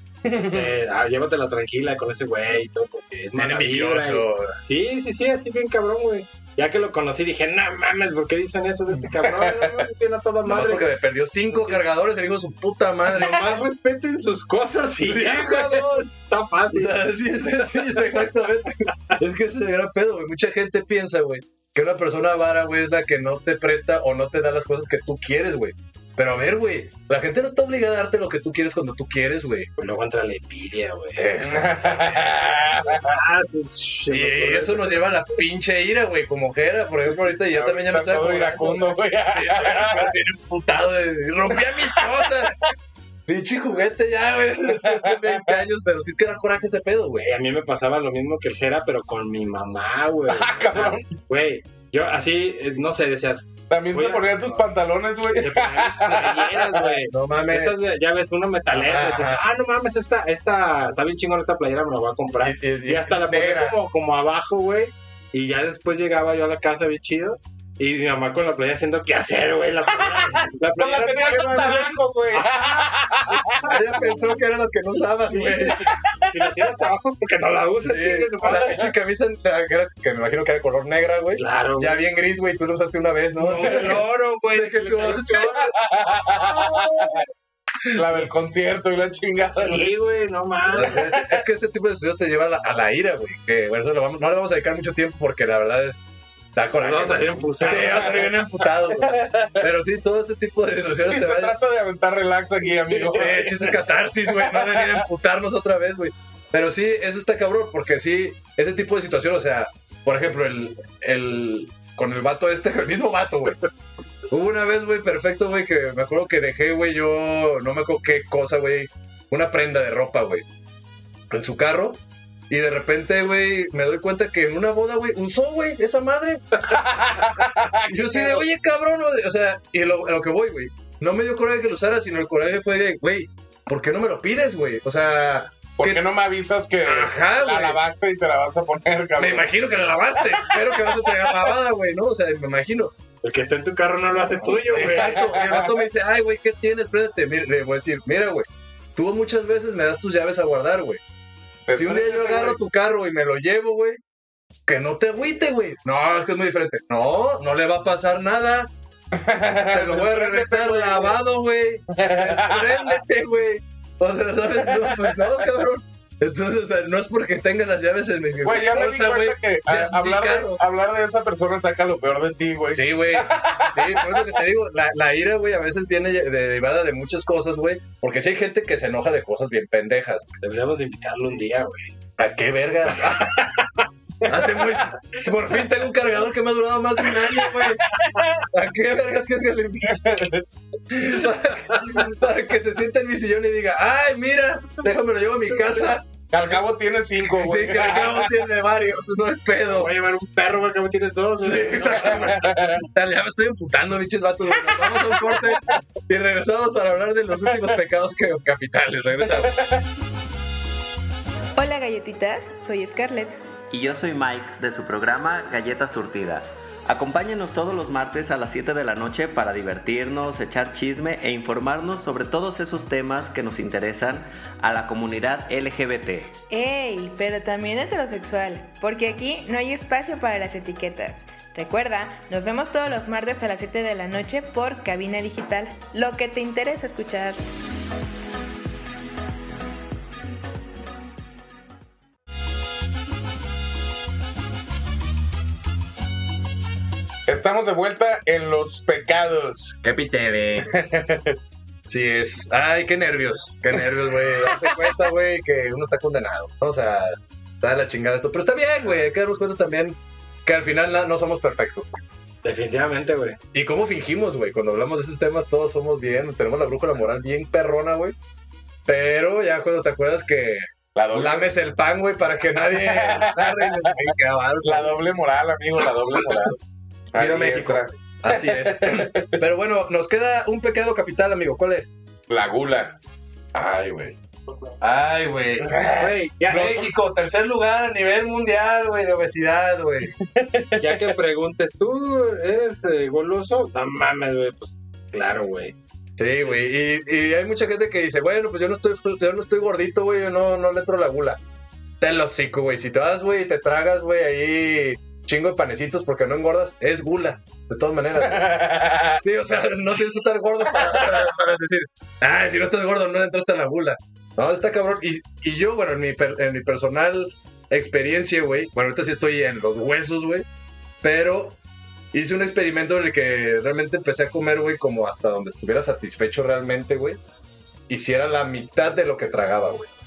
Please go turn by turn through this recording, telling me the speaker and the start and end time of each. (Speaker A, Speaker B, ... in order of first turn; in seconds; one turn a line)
Speaker A: 0.2-0.7
Speaker B: 0.5-10.9
Speaker C: 3.3-4.6
Speaker A: 9.2-9.8
Speaker C: 10.4-13.6
Speaker B: 11.5-11.8
Speaker B: 13.1-18.1
Speaker C: 15.0-16.1
Speaker C: 16.7-29.7
Speaker B: 29.8-31.3
Speaker C: 31.1-32.6
Speaker A: 31.4-33.0
Speaker B: 33.0-35.0
Speaker C: 34.1-42.5
Speaker A: 37.5-40.1
Speaker A: 41.5-42.5
Speaker C: 43.3-47.3
Speaker A: 44.7-45.6
Speaker B: 47.2-54.6
Speaker A: 50.3-51.1
Speaker A: 53.7-56.9
Speaker B: 55.3-74.0
Speaker C: 57.1-57.8
Speaker C: 58.7-59.4
Speaker C: 62.4-63.8
Speaker A: 70.6-73.8
Speaker C: 70.9-71.8
Speaker C: 73.6-75.9
Speaker B: 75.3-78.9
Speaker C: 77.8-85.6
Speaker B: 81.4-82.0
Speaker B: 83.4-85.8
Speaker A: 85.8-87.2
Speaker B: 86.8-87.2
Speaker A: 87.9-89.9
Speaker B: 89.6-91.0
Speaker C: 90.7-96.0
Speaker C: 96.5-101.5
Speaker B: 96.8-98.3
Speaker A: 99.0-99.6
Speaker A: 101.0-103.8
Speaker C: 102.9-113.6
Speaker B: 103.3-103.7
Speaker A: 104.3-105.0
Speaker C: 114.3-120.5
Speaker C: 121.3-126.7
Speaker A: 126.7-128.4
Speaker C: 127.8-136.0
Speaker A: 135.8-139.5
Speaker C: 136.8-137.8
Speaker C: 139.2-142.9
Speaker B: 143.2-145.4
Speaker A: 144.7-145.8
Speaker C: 144.7-151.0
Speaker A: 151.7-152.6
Speaker C: 151.7-154.0
Speaker C: 154.7-158.7
Speaker A: 159.1-161.1
Speaker C: 159.6-170.6
Speaker A: 161.9-162.9
Speaker A: 164.7-165.2
Speaker A: 168.4-174.3
Speaker C: 172.7-180.3
Speaker B: 180.4-181.9
Speaker C: 182.2-183.4
Speaker B: 183.2-183.8
Speaker C: 184.2-190.3
Speaker A: 189.9-190.4
Speaker C: 190.9-196.1
Speaker B: 191.7-192.0
Speaker A: 196.3-198.3
Speaker C: 197.3-199.9
Speaker B: 199.7-202.4
Speaker C: 201.4-209.6
Speaker A: 202.0-202.8
Speaker A: 209.4-209.8
Speaker D: 211.6-213.4
Speaker E: 213.7-226.3
Speaker D: 226.5-237.4
Speaker A: 247.3-249.8
Speaker C: 249.8-250.7
Speaker A: 250.6-251.4
Speaker C: 251.9-262.0
Speaker B: 262.4-263.4
Speaker C: 263.5-268.1
Speaker C: 268.9-275.0
Speaker A: 270.9-271.5
Speaker A: 272.7-274.1
Speaker A: 274.6-276.6
Speaker A: 277.1-279.3
Speaker C: 277.1-281.9
Speaker A: 282.3-282.9
Speaker C: 283.5-284.2
Speaker C: 284.8-290.1
Speaker A: 285.7-286.0
Speaker B: 285.8-286.9
Speaker A: 290.4-290.8
Speaker B: 290.8-295.7
Speaker C: 296.2-301.4
Speaker C: 302.0-320.4
Speaker A: 308.3-309.2
Speaker C: 321.0-321.6
Speaker C: 322.1-327.2
Speaker C: 327.9-329.9